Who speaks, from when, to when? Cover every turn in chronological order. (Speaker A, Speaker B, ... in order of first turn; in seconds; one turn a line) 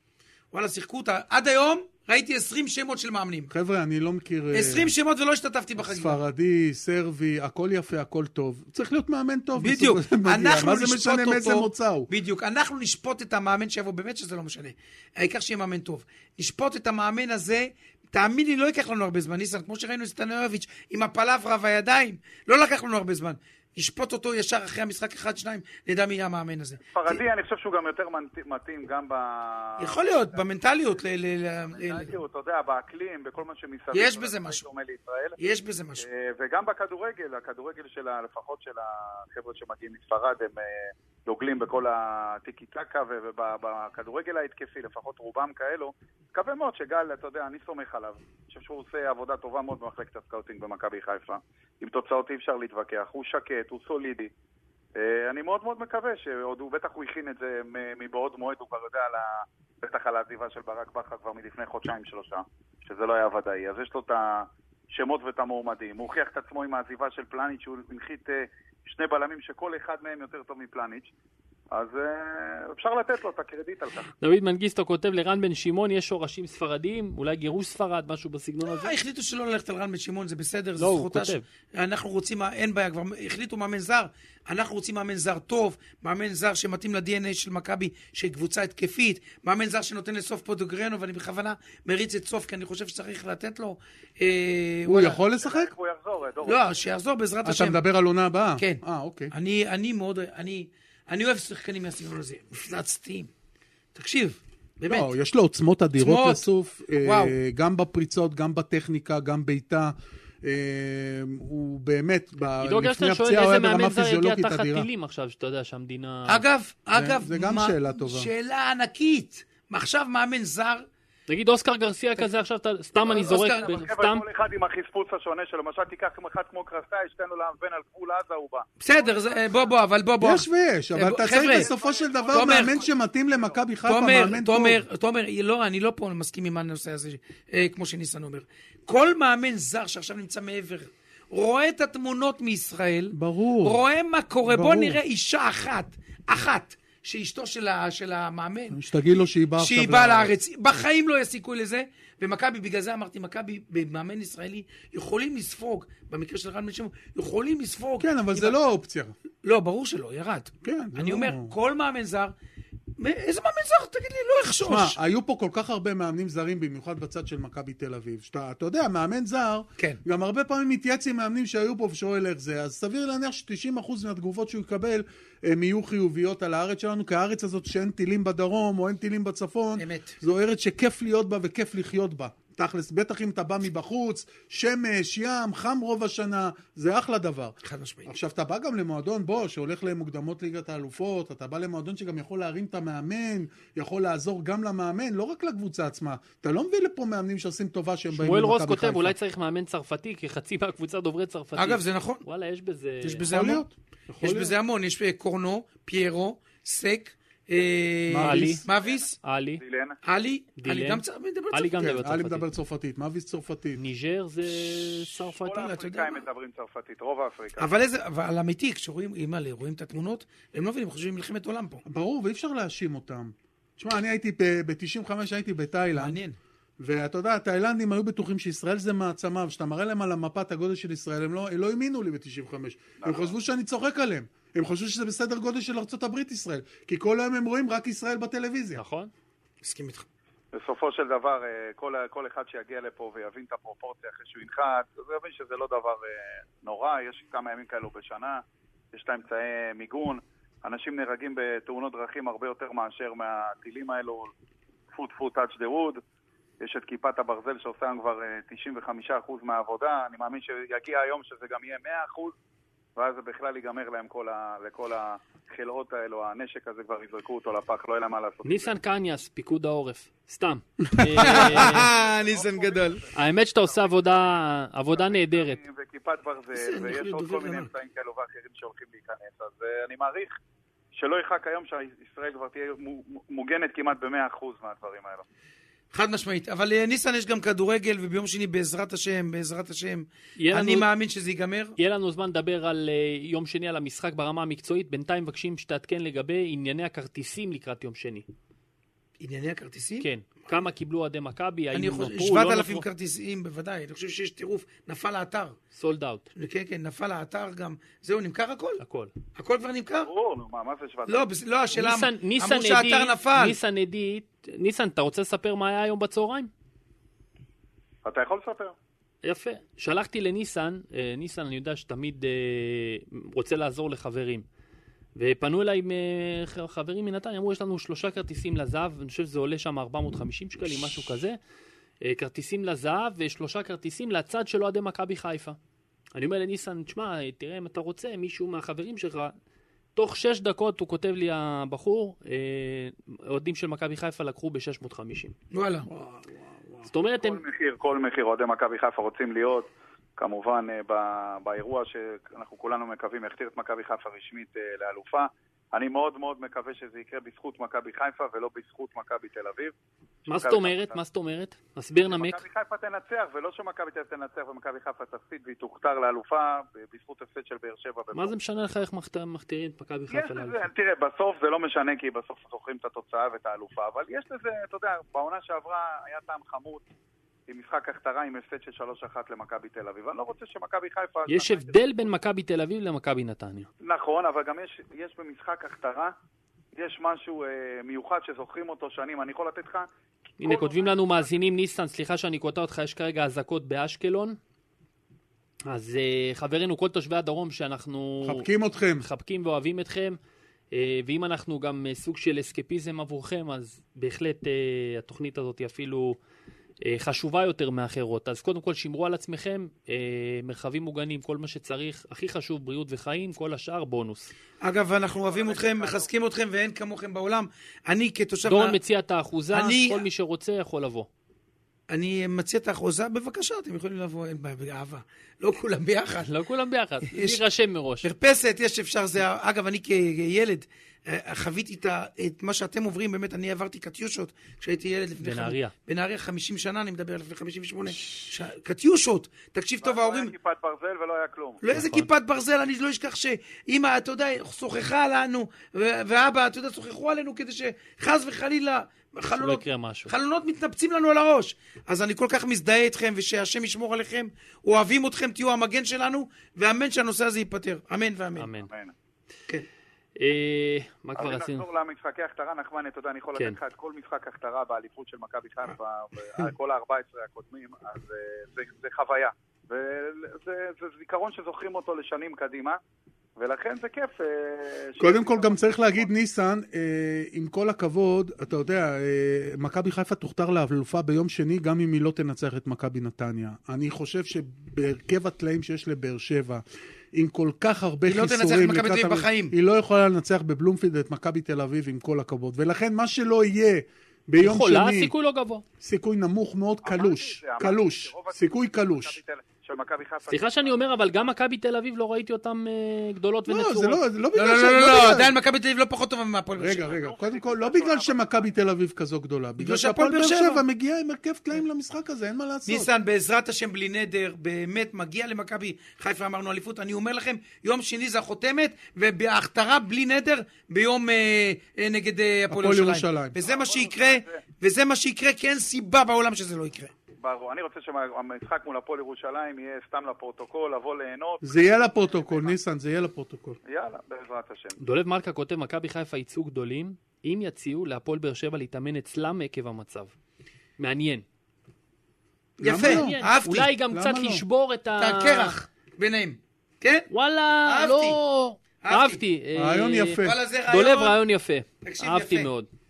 Speaker A: 0.5-3.5
Speaker B: 3.5-4.9
Speaker A: 4.5-6.2
Speaker B: 5.8-12.1
Speaker A: 9.6-27.2
Speaker C: 26.9-30.4
Speaker A: 29.8-32.1
Speaker C: 31.7-35.4
Speaker A: 33.9-34.6
Speaker A: 35.4-36.0
Speaker C: 36.0-54.3
Speaker C: 55.0-71.1
Speaker C: 71.7-74.1
Speaker D: 74.2-78.9
Speaker A: 78.6-95.2
Speaker D: 80.8-81.4
Speaker B: 94.8-95.7
Speaker C: 95.4-96.6
Speaker A: 96.4-97.8
Speaker B: 97.4-99.3
Speaker A: 98.6-103.3
Speaker A: 103.9-105.1
Speaker B: 104.9-114.9
Speaker A: 106.0-106.5
Speaker A: 107.0-107.3
Speaker D: 112.6-116.4
Speaker A: 116.3-120.9
Speaker B: 116.9-118.3
Speaker D: 121.3-124.2
Speaker C: 123.0-129.6
Speaker A: 123.1-123.8
Speaker A: 128.8-131.7
Speaker B: 130.2-134.8
Speaker C: 131.4-133.6
Speaker A: 132.3-132.8
Speaker A: 133.9-148.8
Speaker B: 143.1-143.8
Speaker B: 144.4-145.0
Speaker B: 148.7-150.3
Speaker A: 149.6-158.6
Speaker B: 158.0-159.1
Speaker A: 159.4-162.3
Speaker B: 160.6-161.5
Speaker A: 163.0-165.0
Speaker B: 164.6-199.1
Speaker A: 179.8-180.2
Speaker A: 187.6-188.1
Speaker D: 198.1-203.3
Speaker A: 201.5-202.2
Speaker A: 203.0-203.7
Speaker B: 203.3-204.6
Speaker A: 204.2-209.1
Speaker B: 208.1-208.6
Speaker D: 208.2-208.7
Speaker C: 208.8-210.0
Speaker D: 209.2-209.6
Speaker A: 210.0-211.9
Speaker D: 210.6-212.5
Speaker B: 211.8-213.8
Speaker D: 213.8-215.7
Speaker C: 215.4-217.7
Speaker A: 215.5-216.2
Speaker A: 217.6-221.8
Speaker B: 221.8-226.2
Speaker A: 225.9-226.4
Speaker B: 226.8-238.8
Speaker C: 233.0-233.3
Speaker D: 238.8-239.1
Speaker A: 239.6-240.1
Speaker C: 240.5-248.4
Speaker C: 248.9-254.3
Speaker C: 254.9-256.0
Speaker C: 256.6-262.3
Speaker C: 262.9-268.7
Speaker D: 268.4-271.9
Speaker A: 271.1-273.0
Speaker C: 271.2-274.3
Speaker D: 273.1-275.6
Speaker C: 274.9-280.3
Speaker A: 276.5-277.7
Speaker C: 280.9-285.2
Speaker A: 285.9-291.8
Speaker D: 290.4-290.9
Speaker D: 291.8-298.2
Speaker A: 299.2-300.1
Speaker D: 300.0-302.8
Speaker A: 301.7-305.6
Speaker D: 305.7-306.2
Speaker A: 306.3-308.8
Speaker D: 308.8-309.1
Speaker A: 309.4-310.1
Speaker C: 310.0-311.2
Speaker A: 311.1-313.6
Speaker D: 311.7-316.5
Speaker C: 318.0-318.7
Speaker D: 319.2-324.4
Speaker D: 325.1-331.4
Speaker D: 332.0-335.6
Speaker D: 336.1-339.3
Speaker D: 339.9-345.3
Speaker A: 345.5-345.9
Speaker B: 345.9-346.9
Speaker D: 346.9-347.4
Speaker C: 347.2-359.7
Speaker D: 360.2-362.4
Speaker C: 360.3-361.0
Speaker C: 362.1-368.3
Speaker D: 368.1-370.7
Speaker C: 370.1-376.8
Speaker C: 377.5-382.0
Speaker D: 381.3-383.7
Speaker C: 383.8-386.1
Speaker C: 386.8-389.9
Speaker D: 390.4-394.4
Speaker C: 390.4-391.3
Speaker D: 395.7-398.5
Speaker B: 398.2-399.1
Speaker D: 399.0-400.2
Speaker D: 400.7-406.2
Speaker D: 406.8-414.3
Speaker A: 414.6-418.8
Speaker C: 415.3-416.1
Speaker D: 418.5-421.1
Speaker A: 419.5-420.1
Speaker A: 421.9-426.3
Speaker D: 426.2-428.1
Speaker A: 427.1-427.4
Speaker A: 428.0-440.3
Speaker D: 435.2-435.7
Speaker C: 439.8-441.6
Speaker A: 441.6-458.5
Speaker D: 441.7-442.1
Speaker D: 449.4-450.1
Speaker D: 458.4-458.7
Speaker C: 458.7-458.9
Speaker D: 460.1-461.6
Speaker C: 461.2-472.8
Speaker C: 473.4-476.1
Speaker B: 475.0-495.1
Speaker A: 488.1-489.5
Speaker D: 494.4-495.6
Speaker B: 495.8-499.2
Speaker C: 496.8-500.9
Speaker D: 500.3-504.0
Speaker B: 503.5-505.3
Speaker A: 504.3-506.9
Speaker B: 506.6-512.9
Speaker C: 506.7-508.5
Speaker A: 509.6-510.6
Speaker A: 512.6-526.9
Speaker B: 522.5-523.4
Speaker C: 523.4-524.4
Speaker C: 527.2-532.5
Speaker B: 531.4-533.6
Speaker C: 533.6-534.8
Speaker D: 534.8-540.1
Speaker D: 540.8-541.2
Speaker A: 542.6-543.7
Speaker B: 542.6-543.1
Speaker D: 542.6-545.6
Speaker B: 543.8-544.4
Speaker A: 545.0-547.1
Speaker D: 547.1-552.7
Speaker A: 547.6-548.2
Speaker A: 548.8-549.2
Speaker B: 549.5-550.4
Speaker A: 550.2-551.2
Speaker A: 551.8-552.5